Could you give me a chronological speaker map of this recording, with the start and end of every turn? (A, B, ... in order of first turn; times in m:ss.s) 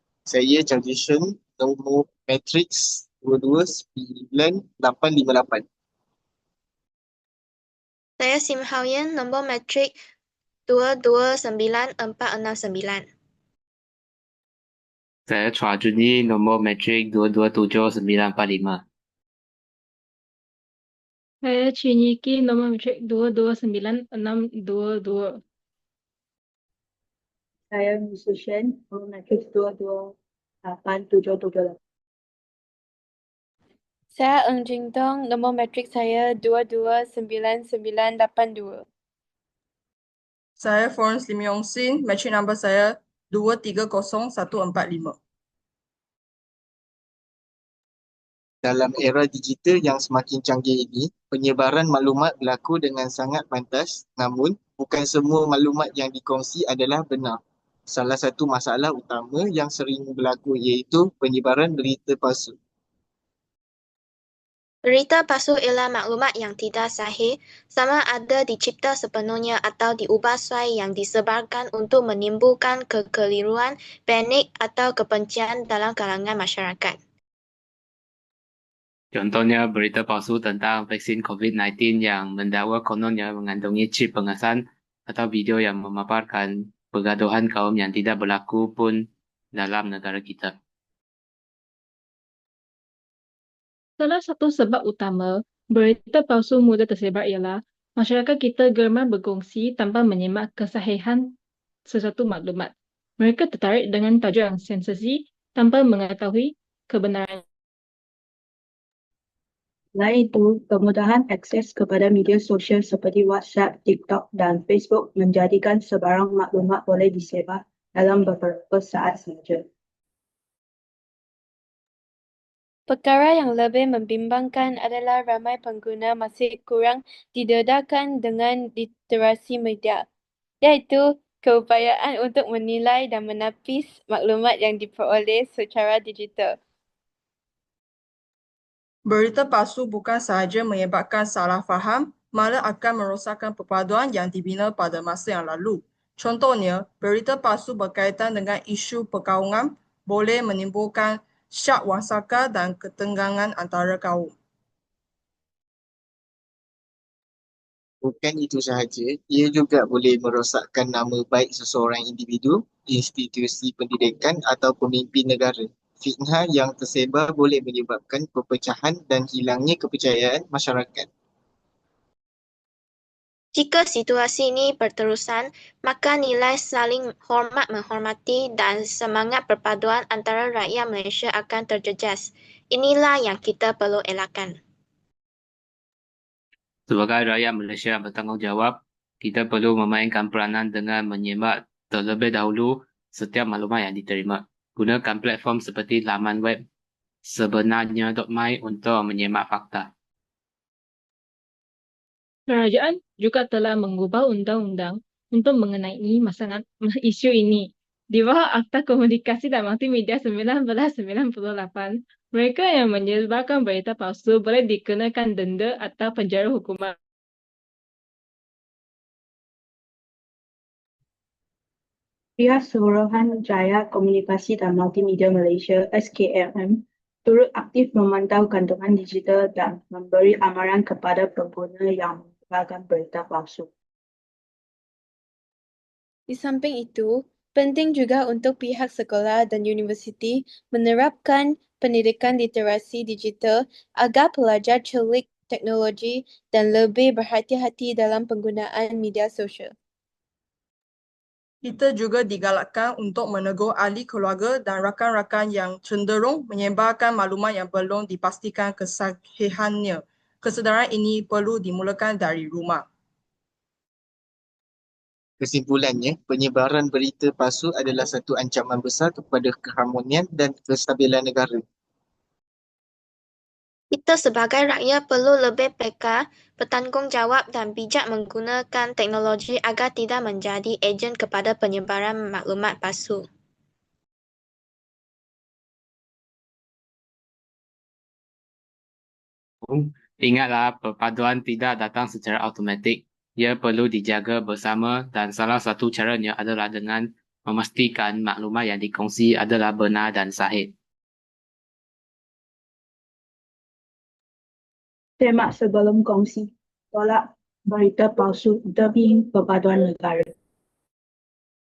0:00.3-0:05.6 A
0:08.2-0:09.9 B
0:10.7-0:13.0 B
0:15.3-0:18.8 C
0:21.4-0:25.4 D
0:27.7-0:31.8 E
0:35.6-0:38.8 F
0:40.6-0:45.2 G
0:48.6-1:02.5 A
1:04.8-1:17.0 B
1:19.1-1:29.0 C
1:29.5-1:30.5 C
1:34.0-1:41.3 D
1:41.9-1:47.4 D
1:49.9-1:59.6 E
2:02.9-2:10.0 F
2:10.6-2:16.6 F
2:19.1-2:34.3 G
2:38.0-2:51.1 A
2:53.5-3:04.6 B
3:06.9-3:16.6 C
3:17.2-3:19.9 C
3:22.5-3:37.0 D
3:42.4-3:53.7 E
3:56.3-4:09.7 F
4:11.6-4:22.8 G
4:25.4-4:31.6 A
4:33.9-4:43.2 B
4:49.6-5:00.7 C
5:05.2-5:10.3 E